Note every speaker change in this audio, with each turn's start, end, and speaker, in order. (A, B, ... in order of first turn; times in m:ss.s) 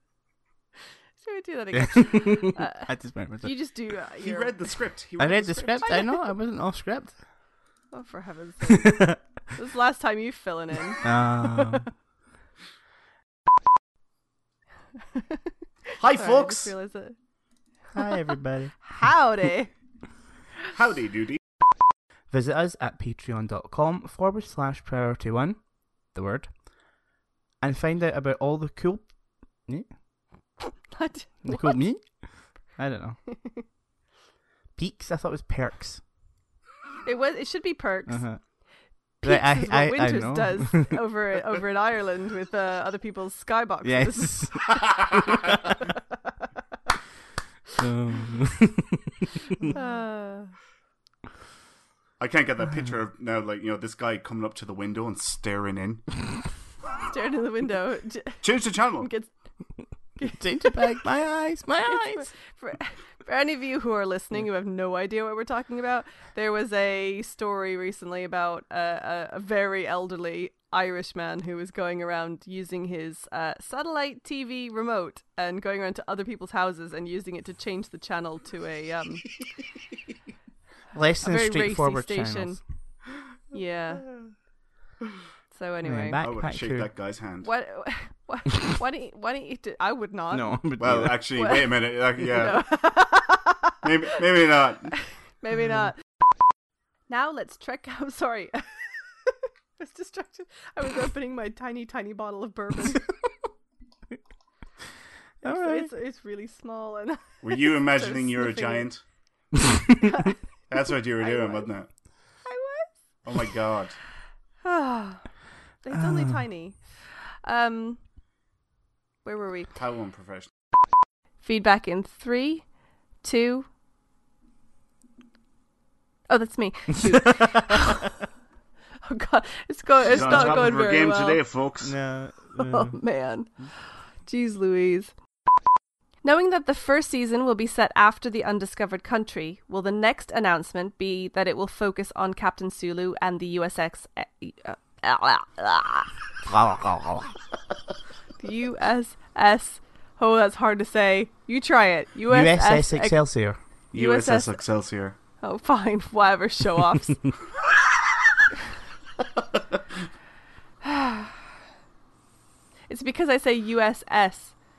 0:01.2-0:04.6 A
0:01.8-0:03.5 B
0:04.2-0:06.0 C
0:05.2-0:07.2 B
0:07.9-0:11.1 A
0:08.7-0:09.0 B
0:11.0-0:11.9 B
0:16.0-0:17.2 A
0:16.0-0:16.7 C
0:17.9-0:18.8 B
0:18.8-0:19.7 A
0:20.7-0:21.4 C
0:22.3-0:25.6 B
0:26.1-0:26.5 B
0:27.6-0:29.1 B
0:30.9-0:31.8 A
0:31.4-0:33.2 B
0:34.8-0:36.0 B
0:37.0-0:38.3 A
0:38.1-0:38.4 B
0:39.2-0:40.9 B
0:39.2-0:44.5 A
0:43.8-0:44.7 B
0:47.8-0:49.1 B
0:49.7-0:50.5 A
0:52.2-0:56.0 C
0:57.1-0:59.3 A
0:58.4-0:59.1 C
1:00.2-1:00.9 A
1:00.2-1:02.3 B
1:01.8-1:19.2 A
1:20.9-1:22.6 B
1:21.2-1:22.6 A
1:23.5-1:24.2 A
1:25.5-1:26.2 A
1:25.8-1:26.9 B
1:26.2-1:27.5 C
1:27.4-1:30.7 A
1:30.3-1:31.2 B
1:30.8-1:32.8 C
1:31.4-1:33.7 A
1:33.8-1:34.9 C
1:34.9-1:36.0 A
1:37.1-1:43.2 A
1:45.4-1:45.9 B
1:45.4-1:48.9 A
1:47.4-1:49.0 C
1:50.0-1:51.7 A
1:50.7-1:51.9 C
1:52.4-1:53.0 A
1:53.2-1:54.0 C
1:54.6-1:55.2 A
1:55.8-1:58.0 A
1:55.9-1:56.3 B
1:59.2-1:59.7 A
1:59.7-2:00.5 C
2:01.4-2:02.6 A
2:03.2-2:03.7 A
2:06.3-2:08.1 A
2:07.0-2:07.6 B
2:09.0-2:11.4 A
2:10.1-2:12.0 C
2:10.1-2:10.8 B
2:11.8-2:13.0 B
2:12.6-2:13.5 A
2:14.3-2:15.1 A
2:16.2-2:26.1 A
2:26.4-2:27.3 B
2:28.4-2:33.2 A
2:32.3-2:33.6 B
2:33.9-2:35.2 C
2:33.9-2:34.6 A
2:35.4-2:37.3 A
2:40.8-2:41.4 A
2:42.9-2:44.6 A